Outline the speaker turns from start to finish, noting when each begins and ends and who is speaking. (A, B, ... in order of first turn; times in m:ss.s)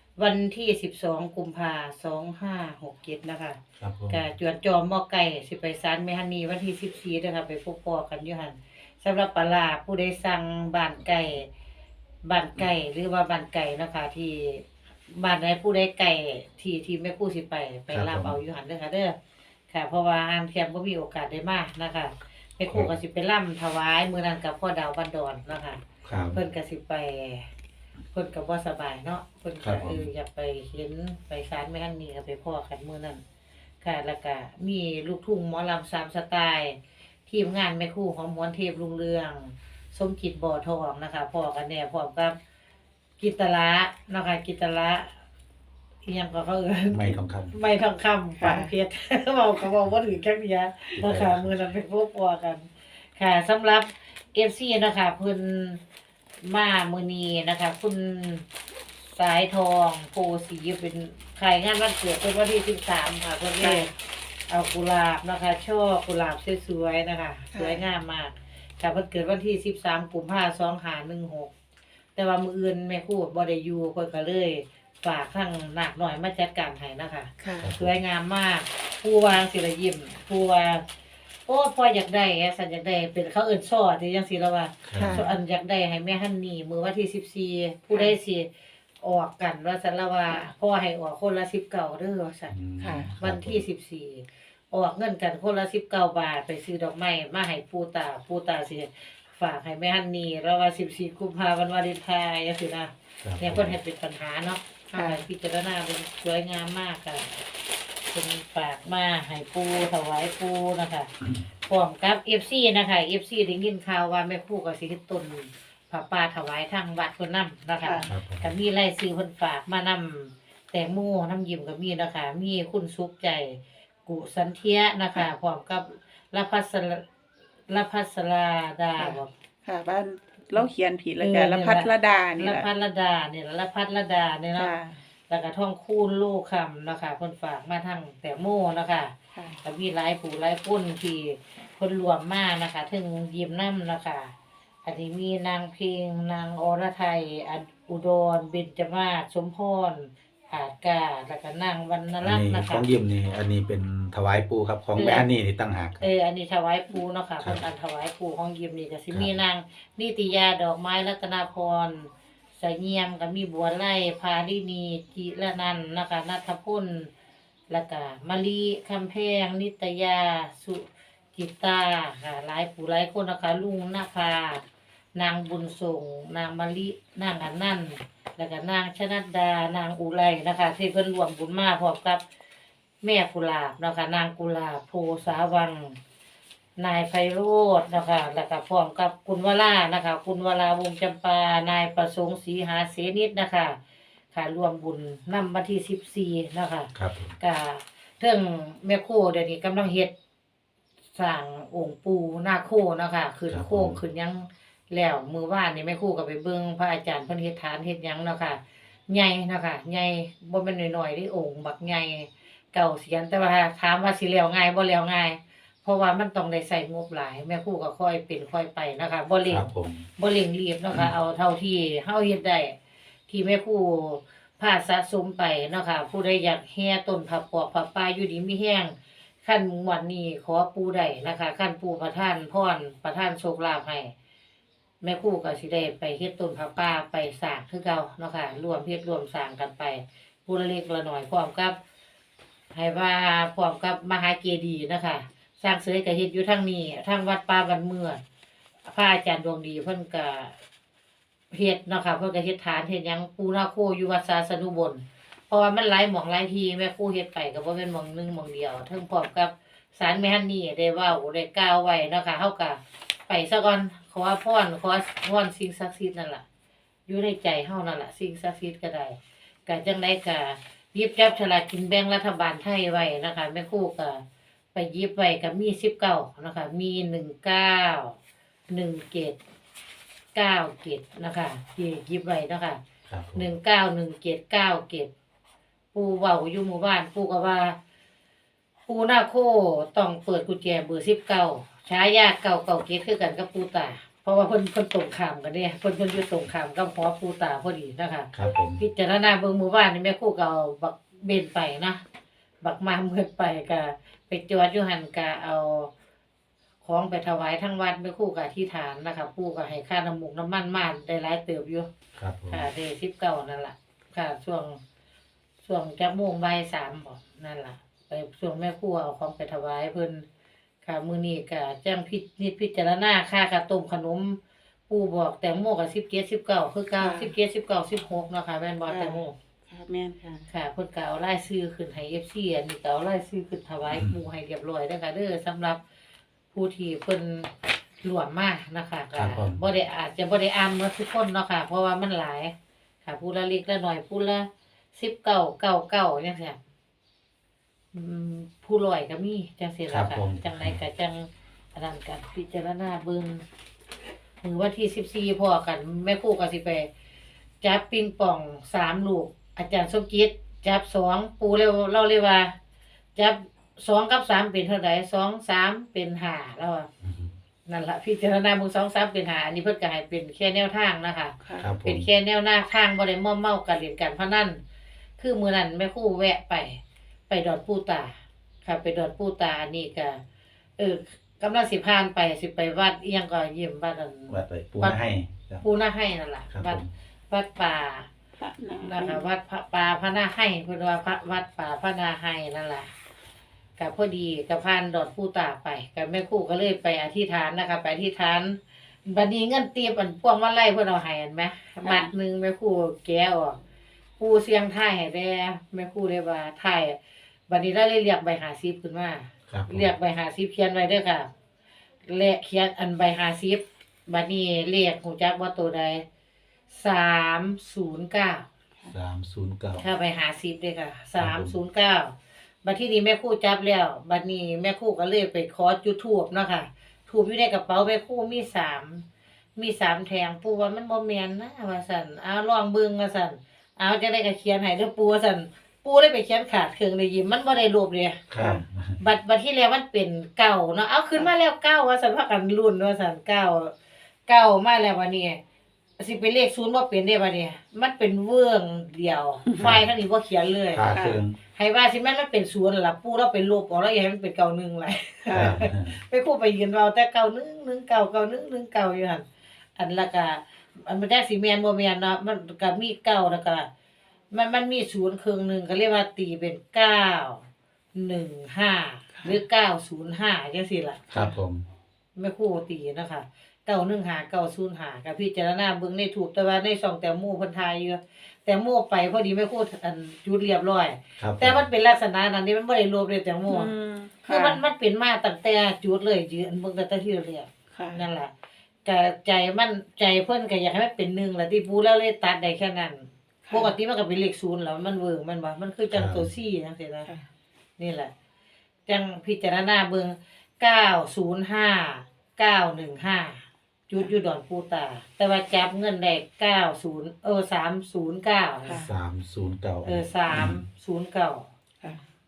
0:00.2-0:03.6 A
0:03.8-0:04.2 B
0:04.1-0:11.5 A
0:12.2-0:19.2 A
0:17.9-0:18.4 B
0:19.7-0:25.8 A
0:26.0-0:26.4 B
0:26.3-0:27.5 A
0:28.1-0:33.2 A
0:29.6-0:30.1 B
0:33.8-0:42.4 A
0:43.2-0:45.1 A
0:46.0-0:55.8 A
0:46.9-0:47.6 B
0:48.4-0:48.7 C
0:51.0-0:51.6 B
0:56.4-0:58.5 A
0:59.1-1:03.9 A
1:03.6-1:03.9 C
1:04.5-1:11.5 A
1:07.5-1:07.8 C
1:12.2-1:20.8 A
1:17.4-1:17.7 C
1:17.6-1:18.0 B
1:21.5-1:28.5 A
1:24.8-1:25.2 B
1:25.0-1:25.3 C
1:29.0-1:32.5 A
1:32.5-1:33.6 B
1:32.8-1:33.1 C
1:33.2-1:47.4 A
1:43.2-1:43.8 B
1:44.9-1:45.3 C
1:48.1-1:51.1 A
1:51.7-2:07.0 A
1:57.8-1:58.1 C
1:58.1-1:58.5 B
2:07.7-2:09.3 A
2:09.0-2:12.7 C
2:11.2-2:14.7 A
2:14.6-2:15.0 C
2:15.3-2:24.3 A
2:19.3-2:19.6 C
2:24.8-2:32.8 A
2:32.2-2:36.0 B
2:35.0-2:35.2 A
2:36.0-2:47.1 A
2:47.7-2:54.6 A
2:55.2-3:02.2 A
3:03.0-3:06.0 A
3:06.8-3:13.8 A
3:14.3-3:20.1 A
3:17.0-3:17.4 B
3:21.1-3:42.8 A
3:23.5-3:24.0 B
3:39.5-3:40.1 B
3:43.3-3:54.1 A
3:55.0-4:01.8 A
4:02.7-4:08.2 A
4:08.9-4:10.6 A
4:11.5-4:26.4 A
4:27.1-4:34.2 A
4:34.7-4:38.2 A
4:38.7-4:39.4 A
4:40.3-4:42.8 A
4:43.1-4:43.5 B
4:43.4-4:45.1 A
4:45.9-4:47.8 A
4:48.9-5:02.0 A
4:58.3-4:58.8 B
5:02.6-5:05.9 A
5:06.8-5:11.9 A
5:12.2-5:12.7 B
5:12.5-5:14.8 A
5:15.6-5:20.3 A
5:20.8-5:29.3 A
5:27.0-5:27.3 C
5:28.9-5:30.5 C
5:30.5-5:35.8 A
5:36.5-5:46.6 A
5:39.1-5:39.6 B
5:47.9-5:53.4 A
5:49.9-5:50.8 B
5:54.4-5:56.9 A
5:57.6-6:02.5 A
6:03.2-6:06.9 A
6:07.0-6:07.3 B
6:07.7-6:14.6 A
6:11.4-6:11.8 C
6:11.6-6:12.1 B
6:15.2-6:20.2 A
6:20.8-6:25.0 A
6:24.3-6:25.6 B
6:25.6-6:28.1 A
6:26.5-6:26.9 B
6:28.4-6:29.3 C
6:28.8-6:32.9 A
6:33.8-6:43.6 A
6:41.8-6:42.1 C
6:44.2-6:47.0 A
6:47.5-6:51.3 A
6:49.5-6:49.9 B
6:52.1-6:56.0 A
6:56.7-6:58.5 A
6:58.9-6:59.8 B
6:59.8-7:09.0 A
7:01.2-7:01.5 B
7:09.6-7:18.3 A
7:18.3-7:19.0 B
7:19.0-7:23.7 A
7:24.3-7:25.4 A
7:26.0-7:31.0 A
7:29.5-7:29.7 C
7:29.6-7:29.8 B
7:30.7-7:31.4 B
7:30.9-7:31.2 C
7:31.6-7:39.2 A
7:35.3-7:35.6 C
7:35.3-7:36.0 B
7:39.8-7:43.7 A
7:44.3-7:51.0 A
7:51.1-7:51.7 B
7:51.1-7:51.4 C
7:52.2-8:03.7 A
8:01.2-8:01.6 B
8:03.5-8:04.6 C
8:04.2-8:08.3 A
8:07.7-8:08.0 C
8:08.8-8:17.1 A
8:13.5-8:13.7 C
8:15.9-8:16.3 B
8:17.8-8:18.1 A
8:18.9-8:28.8 A
8:28.6-8:28.9 C
8:28.7-8:30.6 B
8:29.8-8:31.5 A